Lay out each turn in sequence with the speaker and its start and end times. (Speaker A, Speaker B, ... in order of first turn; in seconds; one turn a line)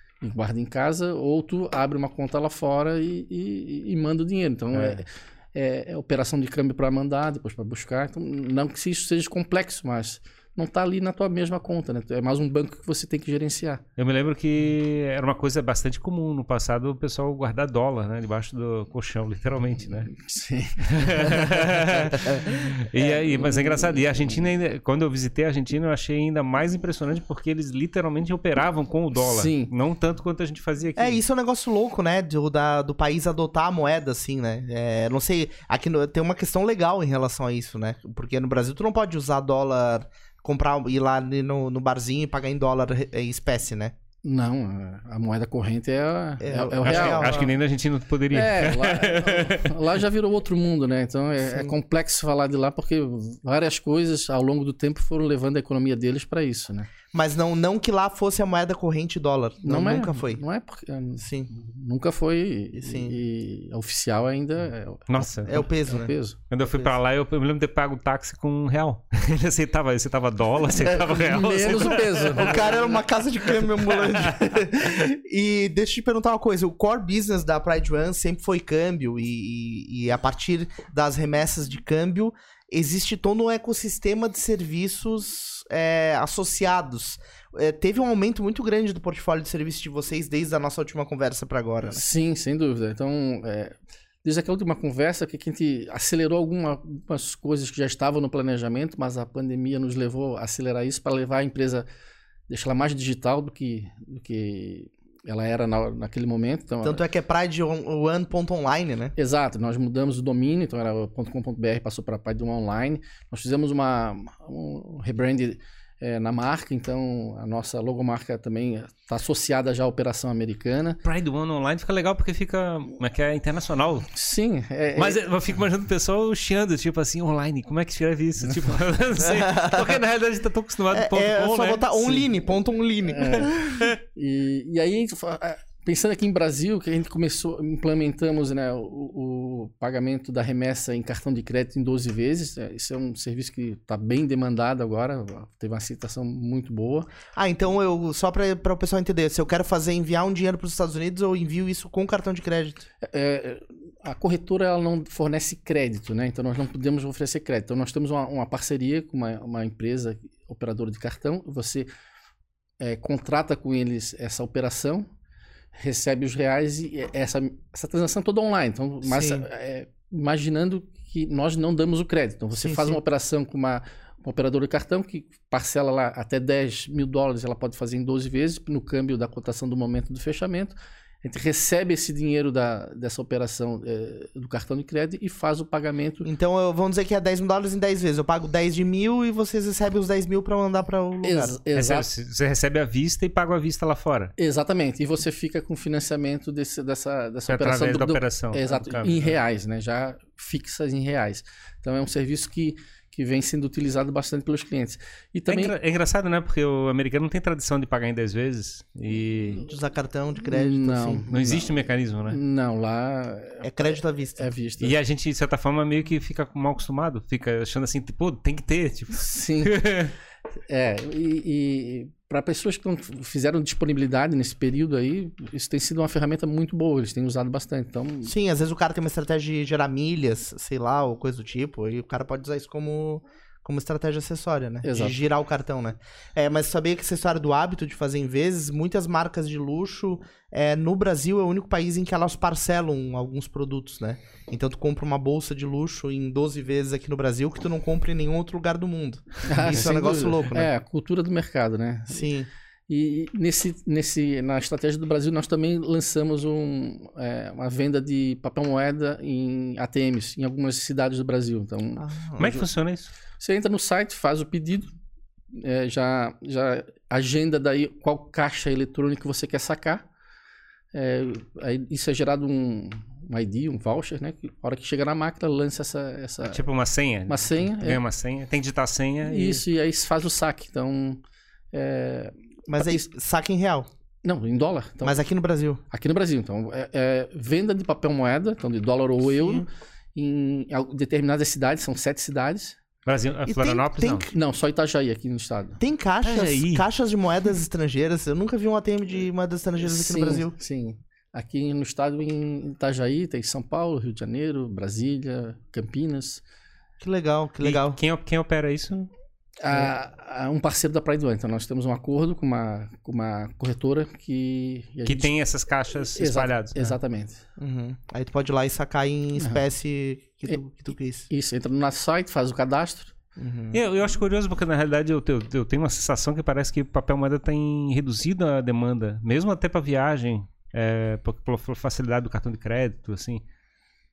Speaker A: 0.2-13.8
Speaker B: 4.7-5.0
Speaker B: 14.0-20.1
Speaker A: 20.1-22.5
Speaker B: 20.8-31.2
Speaker C: 23.0-23.3
Speaker A: 23.4-24.0
Speaker A: 29.2-29.7
Speaker C: 31.0-44.0
Speaker A: 44.2-47.5
Speaker C: 46.4-47.5
Speaker B: 46.8-49.7
Speaker A: 48.3-56.9
Speaker C: 57.1-60.4
Speaker A: 59.6-66.4
Speaker C: 61.2-61.5
Speaker C: 62.7-63.2
Speaker B: 65.1-65.6
Speaker C: 65.5-66.1
Speaker B: 66.5-73.0
Speaker C: 66.7-66.9
Speaker A: 71.0-72.8
Speaker C: 72.3-92.0
Speaker B: 73.6-74.6
Speaker A: 91.8-101.9
Speaker A: 102.5-107.0
Speaker C: 106.8-109.1
Speaker A: 109.2-121.0
Speaker B: 121.0-124.1
Speaker A: 124.1-125.2
Speaker B: 125.0-132.2
Speaker C: 129.4-129.8
Speaker C: 130.9-133.9
Speaker A: 133.1-133.6
Speaker A: 134.1-147.1
Speaker C: 147.3-152.9
Speaker A: 153.0-161.9
Speaker A: 162.8-165.1
Speaker A: 165.8-186.3
Speaker C: 169.0-169.5
Speaker C: 172.6-173.0
Speaker C: 186.2-191.6
Speaker A: 191.2-192.1
Speaker B: 191.7-194.3
Speaker A: 194.4-205.7
Speaker B: 197.5-199.3
Speaker B: 205.5-209.7
Speaker C: 209.6-211.2
Speaker A: 210.5-214.9
Speaker B: 211.3-212.4
Speaker C: 213.6-214.5
Speaker B: 214.8-220.1
Speaker A: 219.2-219.8
Speaker A: 220.7-228.3
Speaker C: 228.3-250.7
Speaker A: 234.8-235.2
Speaker A: 249.4-252.3
Speaker C: 252.1-252.5
Speaker A: 252.9-262.7
Speaker C: 262.0-262.4
Speaker B: 262.4-263.1
Speaker A: 263.4-264.9
Speaker A: 265.5-270.1
Speaker A: 270.9-276.6
Speaker B: 276.4-279.6
Speaker A: 277.3-278.0
Speaker A: 279.2-281.2
Speaker A: 281.7-283.1
Speaker C: 282.7-283.9
Speaker A: 284.2-285.2
Speaker C: 285.0-285.8
Speaker A: 285.9-292.8
Speaker C: 289.3-289.6
Speaker B: 293.1-294.3
Speaker C: 293.5-294.3
Speaker A: 294.3-295.8
Speaker C: 295.8-300.5
Speaker B: 296.2-296.9
Speaker A: 299.8-306.4
Speaker C: 307.0-308.0
Speaker B: 307.6-309.1
Speaker A: 309.6-315.3
Speaker B: 315.1-317.0
Speaker A: 316.1-317.4
Speaker C: 317.6-321.3
Speaker A: 321.3-323.1
Speaker C: 323.4-323.8
Speaker B: 323.7-333.4